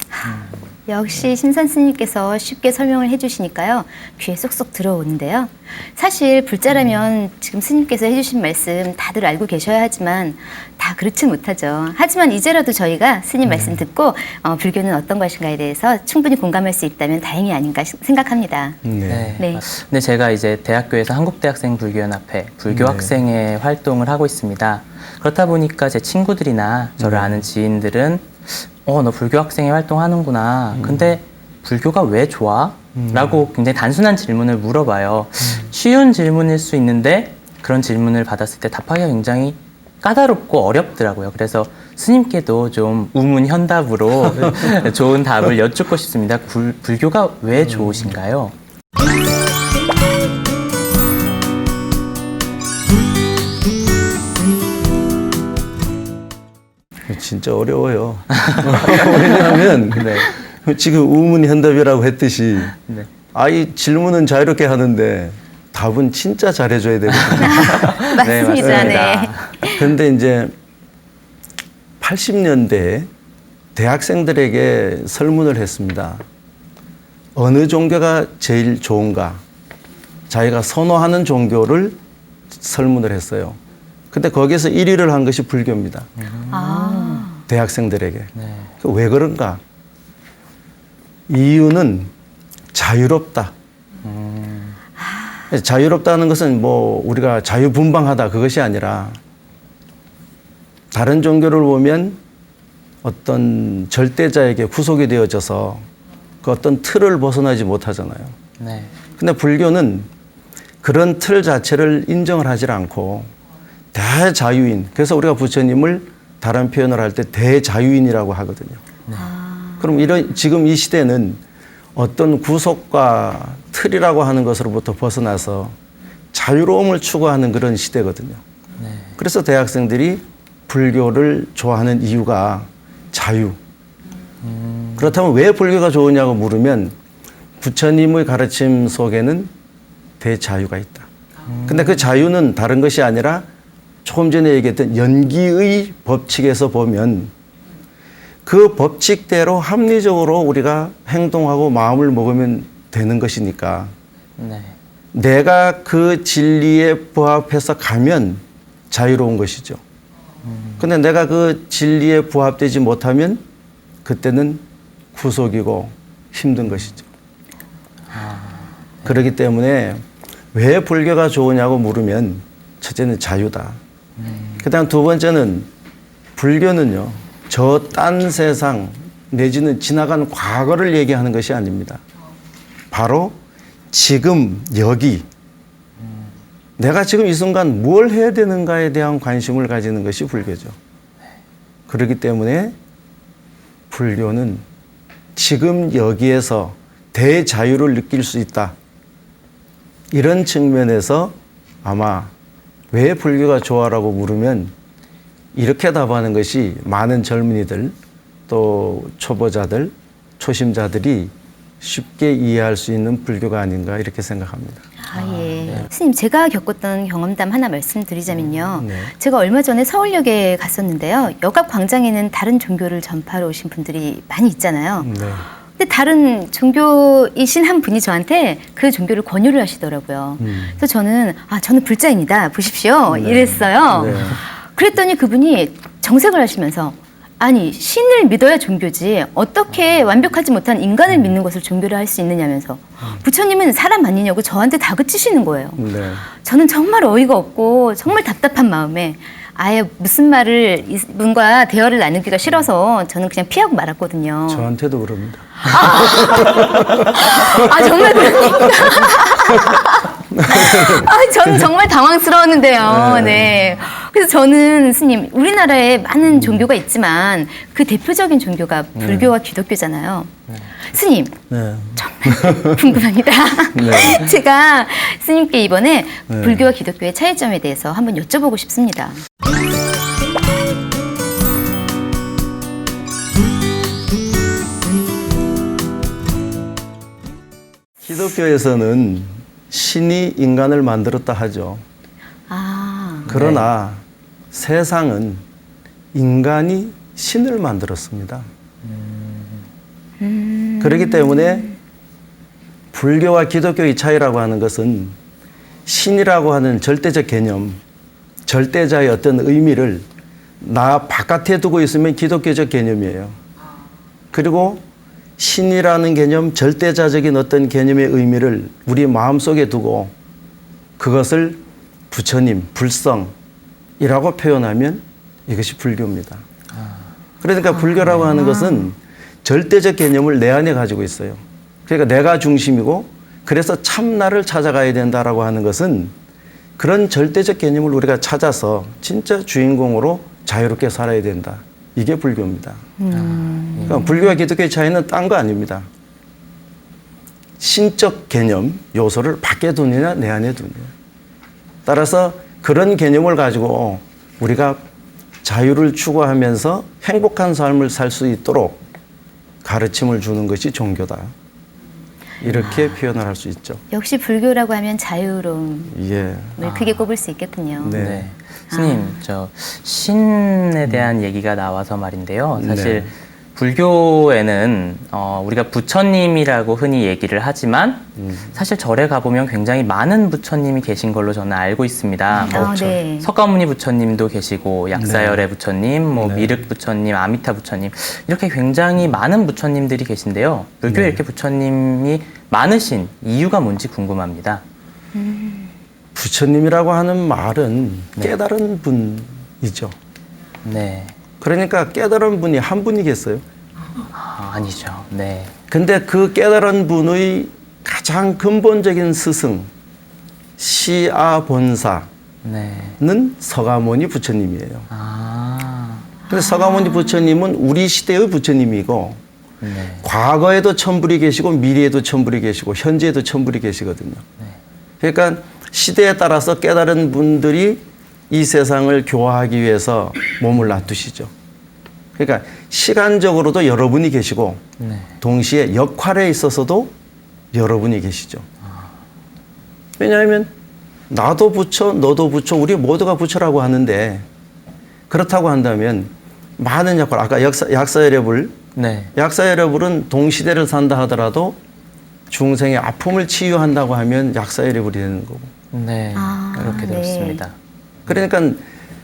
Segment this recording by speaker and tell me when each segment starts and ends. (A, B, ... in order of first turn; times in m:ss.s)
0:00.1-0:18.8 A
0:18.8-0:19.4 B
0:19.1-0:48.5 C
0:19.4-0:19.6 A
0:22.7-0:23.2 B
0:27.0-0:27.4 B
0:30.7-0:31.2 B
0:32.9-0:33.4 B
0:57.1-1:02.8 B
0:58.3-1:00.3 C
1:03.3-1:10.5 B
1:07.2-1:09.6 C
1:07.4-1:09.9 A
1:12.0-1:13.1 B
1:13.8-1:16.2 B
1:17.4-1:19.4 B
1:20.3-1:22.0 B
1:22.5-1:23.6 B
1:24.1-1:26.1 B
1:26.2-1:27.3 C
1:26.5-1:27.4 A
1:27.5-1:29.6 B
1:28.4-1:28.7 C
1:31.3-1:32.1 B
1:32.7-1:33.5 B
1:34.0-1:34.8 C
1:35.0-1:35.4 A
1:35.5-1:39.2 B
1:40.9-1:42.2 B
1:43.0-1:45.8 B
1:46.4-1:48.4 B
1:48.6-1:48.9 C
1:49.2-1:50.1 B
1:50.8-1:53.3 B
1:53.9-1:58.8 B
1:59.1-2:00.1 A
1:59.8-2:01.4 B
2:01.9-2:05.8 B
2:06.3-2:08.4 B
2:08.8-2:09.1 C
2:09.2-2:13.6 B
2:14.4-2:15.1 C
2:15.0-2:16.9 B
2:17.6-2:19.5 B
2:20.2-2:21.1 B
2:21.5-2:22.1 C
2:21.6-2:23.4 B
2:24.0-2:27.3 B
2:28.4-2:33.9 B
2:34.4-2:34.7 C
2:35.1-2:39.8 B
2:40.4-2:40.9 C
2:40.8-2:43.4 B
2:44.0-2:44.6 B
2:45.1-2:47.1 B
2:48.1-2:49.3 C
2:49.0-2:53.8 B
2:54.2-2:54.6 C
2:54.6-2:55.7 B
2:56.4-3:02.0 B
3:02.9-3:03.4 B
3:03.9-3:05.2 B
3:06.8-3:10.8 B
3:11.9-3:12.8 B
3:13.9-3:14.6 B
3:15.3-3:18.7 B
3:20.1-3:22.3 B
3:22.9-3:24.7 B
3:25.6-3:27.9 B
3:28.5-3:34.8 B
3:35.0-3:45.1 A
3:35.1-3:35.9 C
3:38.8-3:39.1 B
3:45.0-3:45.4 B
3:45.8-4:14.7 A
3:50.4-3:50.8 B
3:53.1-3:54.4 B
4:05.8-4:06.2 B
4:14.5-4:19.6 B
4:15.6-4:31.4 A
4:20.3-4:21.1 B
4:22.8-4:23.6 B
4:29.0-4:29.3 B
4:31.5-4:33.0 B
4:32.0-4:39.2 A
4:33.7-4:34.3 B
4:36.3-4:36.7 B
4:48.0-4:51.8 B
4:52.5-4:53.3 A
4:53.3-4:53.7 C
4:53.3-4:55.4 B
4:56.1-4:58.5 B
4:58.9-4:59.6 C
5:00.2-5:01.8 A
5:00.8-5:01.7 B
5:02.9-5:05.2 B
5:05.8-5:07.8 B
5:08.4-5:10.1 B
5:10.6-5:13.4 B
5:14.3-5:14.8 B
5:15.4-5:20.1 B
5:21.0-5:23.3 B
5:24.0-5:26.4 B
5:27.4-5:36.1 B
5:27.7-5:28.9 A
5:36.8-5:42.9 B
5:43.0-5:44.2 A
5:43.1-5:44.1 C
5:43.8-5:45.9 B
5:47.6-5:50.9 B
5:51.8-5:54.8 B
5:55.4-5:58.8 B
5:59.6-6:01.3 B
6:02.4-6:03.8 B
6:03.9-6:06.0 A
6:05.9-6:06.6 B
6:06.6-6:08.0 A
6:06.6-6:07.0 C
6:07.8-6:08.3 B
6:07.9-6:34.6 C
6:08.7-6:09.2 A
6:12.6-6:13.1 B
6:18.2-6:18.5 B
6:22.3-6:23.0 B
6:22.4-6:23.3 A
6:25.0-6:25.4 B
6:26.2-6:26.5 B
6:30.9-6:31.2 B
6:35.1-6:35.7 A
6:36.1-6:39.9 B
6:40.6-6:41.1 C
6:41.4-6:43.4 B
6:44.1-6:45.5 C
6:45.7-6:49.7 B
6:50.6-6:52.1 B
6:52.4-6:53.0 C
6:53.0-6:54.9 B
6:54.9-6:56.1 C
6:56.3-6:59.2 B
6:56.3-6:57.3 A
6:59.6-7:00.0 C
7:00.0-7:04.2 B
7:05.0-7:11.3 B
7:12.2-7:14.6 B
7:14.8-7:15.1 C
7:15.2-7:16.9 B
7:17.5-7:18.4 B
7:20.0-7:20.5 B
7:21.1-7:24.2 B
7:25.1-7:28.6 B
7:28.8-7:29.1 C
7:29.1-7:31.6 B
7:32.3-7:35.5 B
7:35.7-7:37.6 C
7:36.1-7:37.4 A
7:38.1-7:38.6 B